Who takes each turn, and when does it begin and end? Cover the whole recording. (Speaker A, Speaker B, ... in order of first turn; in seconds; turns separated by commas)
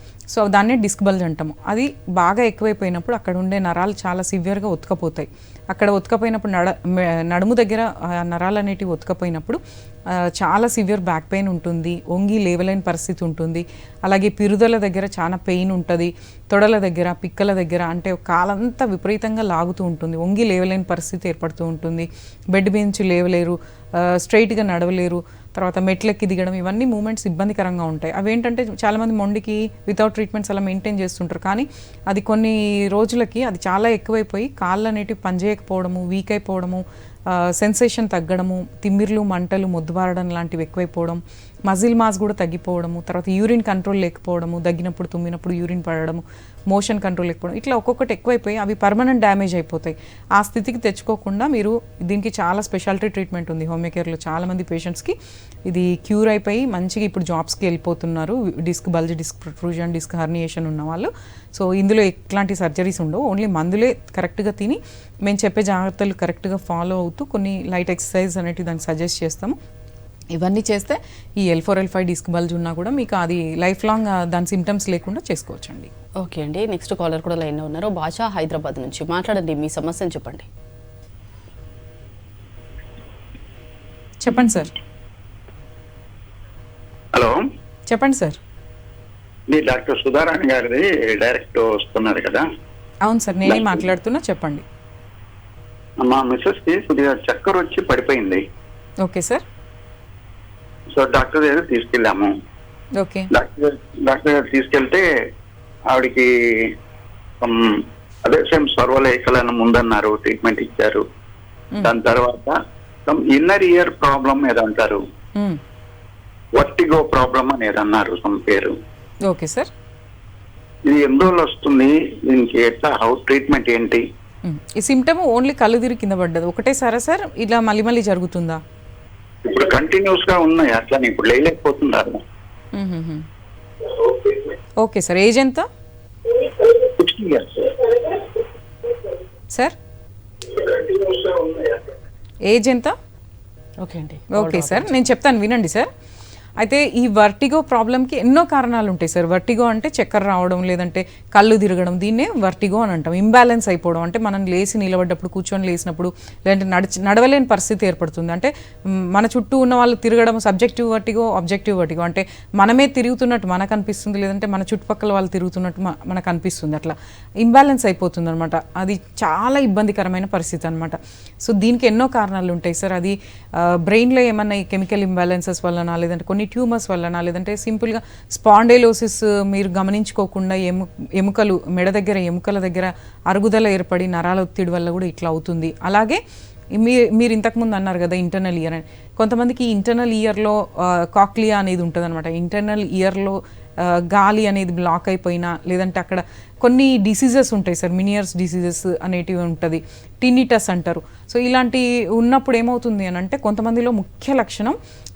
Speaker A: 0.3-55.2, Speaker A: 55.7-69.6, Speaker A: 70.3-75.9, Speaker B: 76.2-80.5, Speaker A: 84.2-84.7, Speaker C: 87.1-87.4, Speaker A: 87.9-88.4, Speaker C: 89.5-92.5, Speaker A: 93.0-94.7, Speaker C: 96.0-98.4, Speaker A: 99.0-99.4, Speaker C: 100.9-102.4, Speaker A: 103.0-103.3, Speaker C: 103.3-105.1, Speaker C: 105.9-106.8, Speaker C: 107.4-111.0, Speaker C: 111.8-115.0, Speaker A: 115.4-115.6, Speaker C: 116.6-118.8, Speaker A: 119.2-119.7, Speaker C: 120.9-124.0, Speaker A: 124.4-128.6, Speaker C: 129.4-132.2, Speaker A: 132.7-133.3, Speaker A: 134.8-135.7, Speaker C: 136.8-137.9, Speaker C: 140.6-141.1, Speaker A: 142.5-143.0, Speaker B: 143.8-145.0, Speaker A: 144.3-145.9, Speaker A: 146.6-186.2, Speaker A: 186.7-204.8